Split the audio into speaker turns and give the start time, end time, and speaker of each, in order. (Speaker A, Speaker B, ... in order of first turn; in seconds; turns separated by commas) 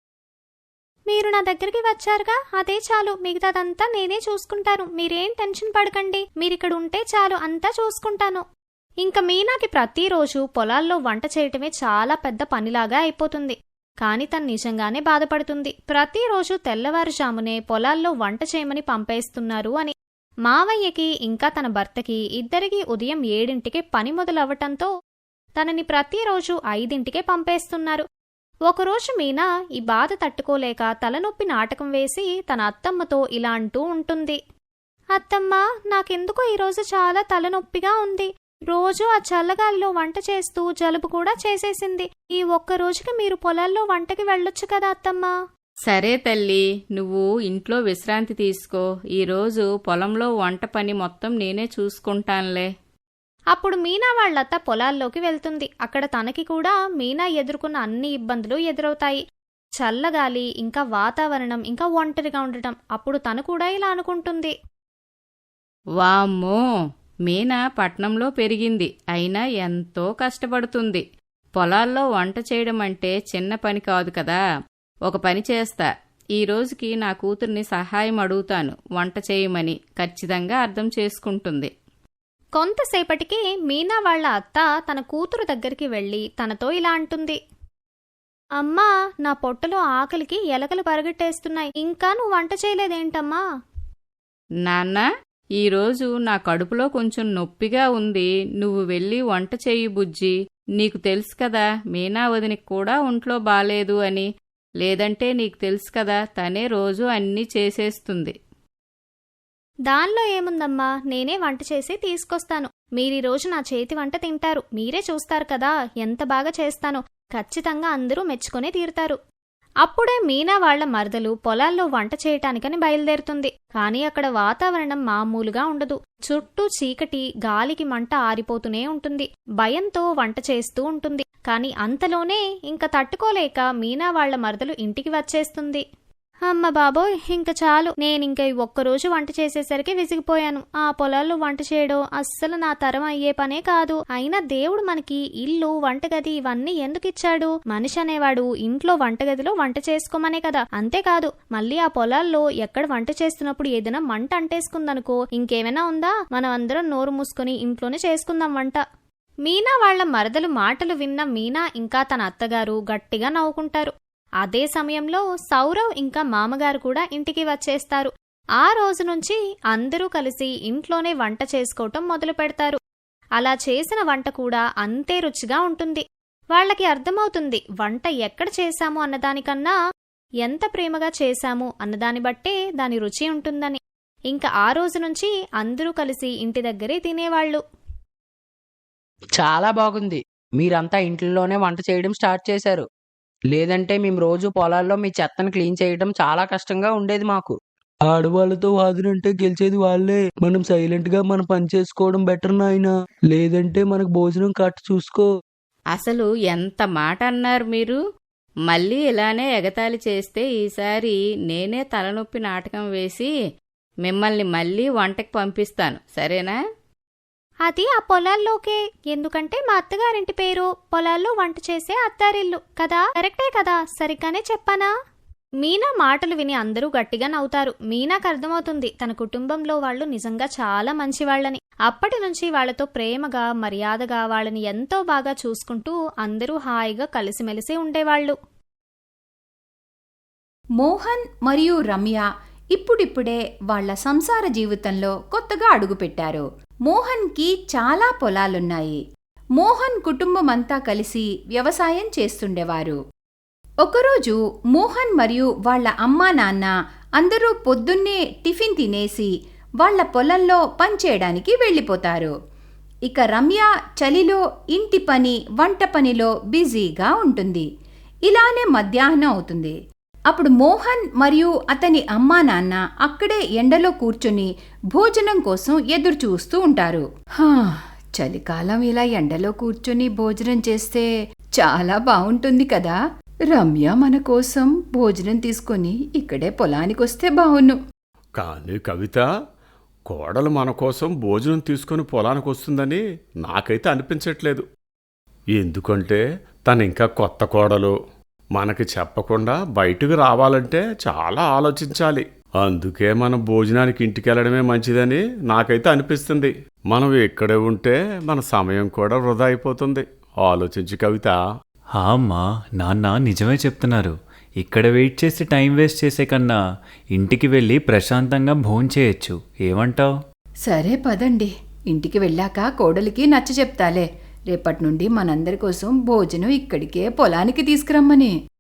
Speaker A: 1.1-8.4, Speaker A: 9.0-19.9, Speaker A: 20.4-24.9, Speaker A: 25.6-28.1, Speaker A: 28.7-34.4, Speaker A: 35.1-45.3, Speaker B: 45.9-52.7, Speaker A: 53.5-59.2, Speaker A: 59.8-64.5, Speaker B: 66.0-66.6, Speaker B: 67.3-71.0, Speaker B: 71.6-74.4, Speaker B: 75.1-81.7, Speaker A: 82.6-87.4, Speaker A: 88.6-93.4, Speaker B: 94.6-95.1, Speaker B: 95.6-104.3, Speaker B: 104.8-108.3, Speaker A: 109.9-119.2, Speaker A: 119.8-135.8, Speaker A: 136.5-158.8, Speaker A: 159.4-172.8, Speaker A: 173.4-179.8, Speaker A: 180.4-187.6, Speaker C: 189.4-192.9, Speaker C: 193.5-197.6, Speaker D: 198.1-205.3, Speaker B: 205.9-208.0, Speaker B: 208.7-213.3, Speaker B: 214.1-216.6, Speaker A: 217.7-224.9, Speaker A: 225.6-238.3, Speaker E: 240.8-249.0, Speaker E: 249.6-253.0, Speaker E: 253.8-262.3, Speaker E: 263.1-267.7, Speaker E: 268.3-269.7, Speaker E: 270.3-281.1, Speaker E: 281.6-283.0, Speaker E: 283.5-287.8, Speaker F: 288.4-289.2, Speaker F: 290.1-294.6, Speaker F: 295.6-297.9, Speaker F: 298.6-311.4, Speaker G: 312.0-316.6, Speaker G: 317.1-320.1, Speaker E: 320.7-328.3